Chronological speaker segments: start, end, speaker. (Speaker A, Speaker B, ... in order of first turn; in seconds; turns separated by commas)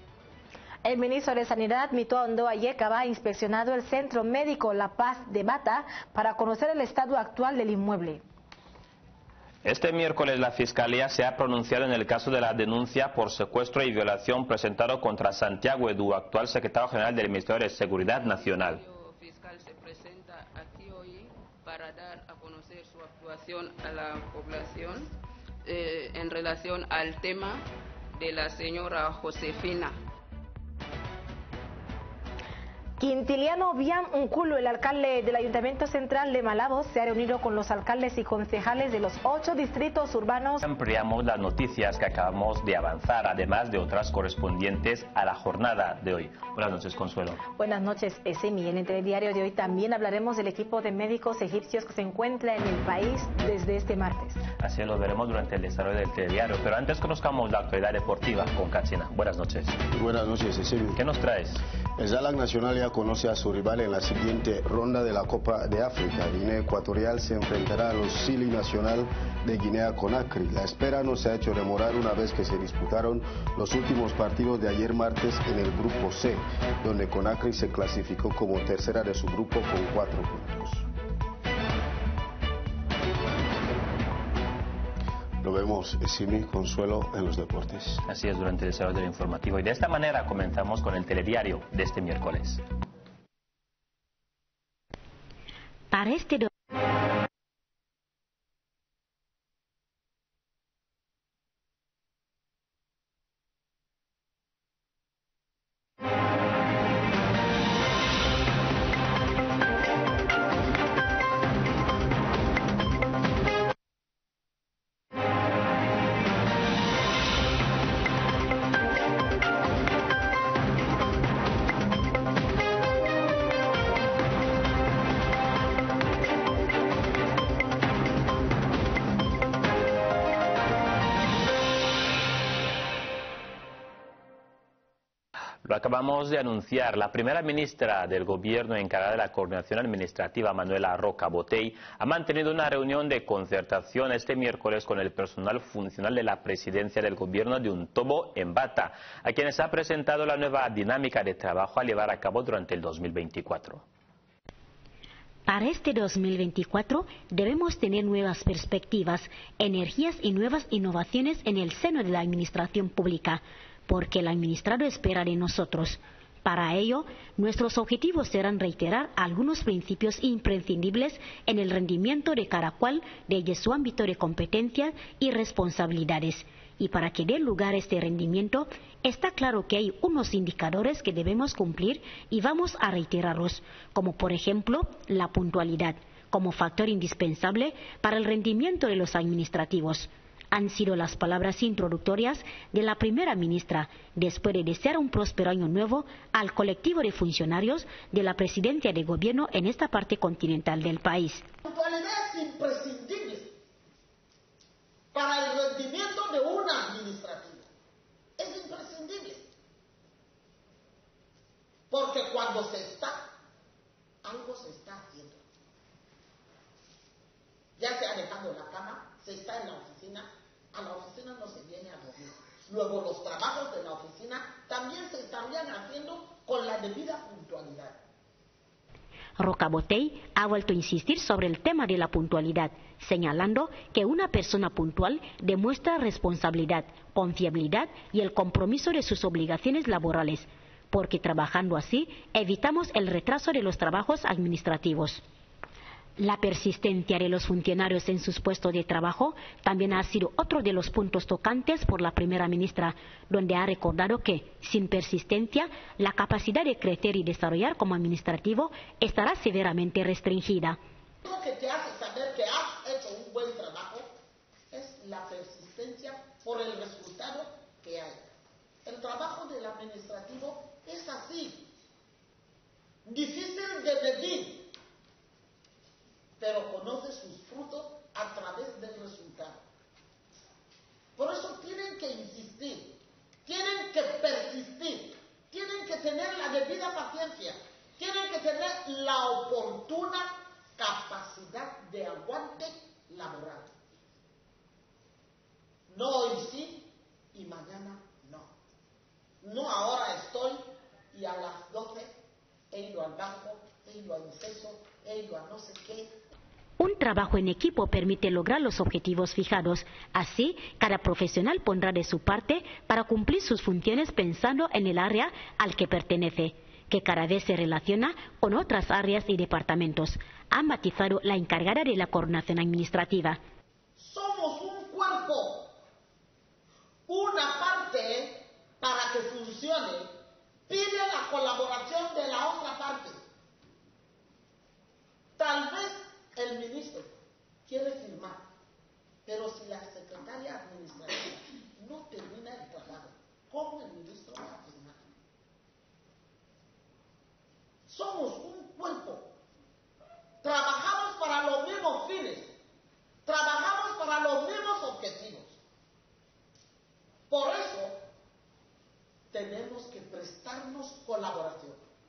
Speaker A: 0.8-8.2, Speaker B: 9.6-18.8, Speaker C: 18.1-25.1, Speaker C: 25.6-27.6, Speaker C: 28.1-29.9, Speaker A: 33.0-40.6, Speaker B: 40.6-47.4, Speaker A: 47.5-54.4, Speaker B: 54.6-59.8, Speaker D: 59.9-61.0, Speaker B: 60.9-61.6, Speaker D: 62.0-80.9, Speaker D: 85.4-88.0, Speaker B: 88.0-92.6, Speaker E: 95.9-96.5, Speaker B: 135.6-153.8, Speaker E: 155.5-201.4, Speaker F: 201.6-203.5, Speaker F: 205.1-207.7, Speaker F: 208.4-209.5, Speaker F: 211.9-213.3, Speaker F: 214.2-215.4, Speaker F: 217.8-228.0, Speaker E: 229.4-245.2, Speaker E: 246.2-260.8, Speaker F: 261.2-264.1, Speaker F: 264.7-268.3, Speaker F: 268.8-271.7, Speaker F: 273.0-274.7, Speaker F: 276.4-279.6, Speaker F: 281.1-293.7, Speaker F: 295.9-298.5, Speaker F: 299.4-302.1, Speaker F: 302.7-306.1, Speaker E: 306.8-323.4, Speaker F: 324.0-325.8, Speaker F: 327.1-330.1, Speaker F: 330.7-333.2, Speaker F: 335.4-337.1, Speaker F: 337.6-338.4, Speaker F: 339.2-345.1, Speaker F: 347.9-349.3, Speaker F: 350.4-352.5, Speaker F: 353.2-355.6, Speaker F: 357.3-358.0, Speaker F: 359.3-361.8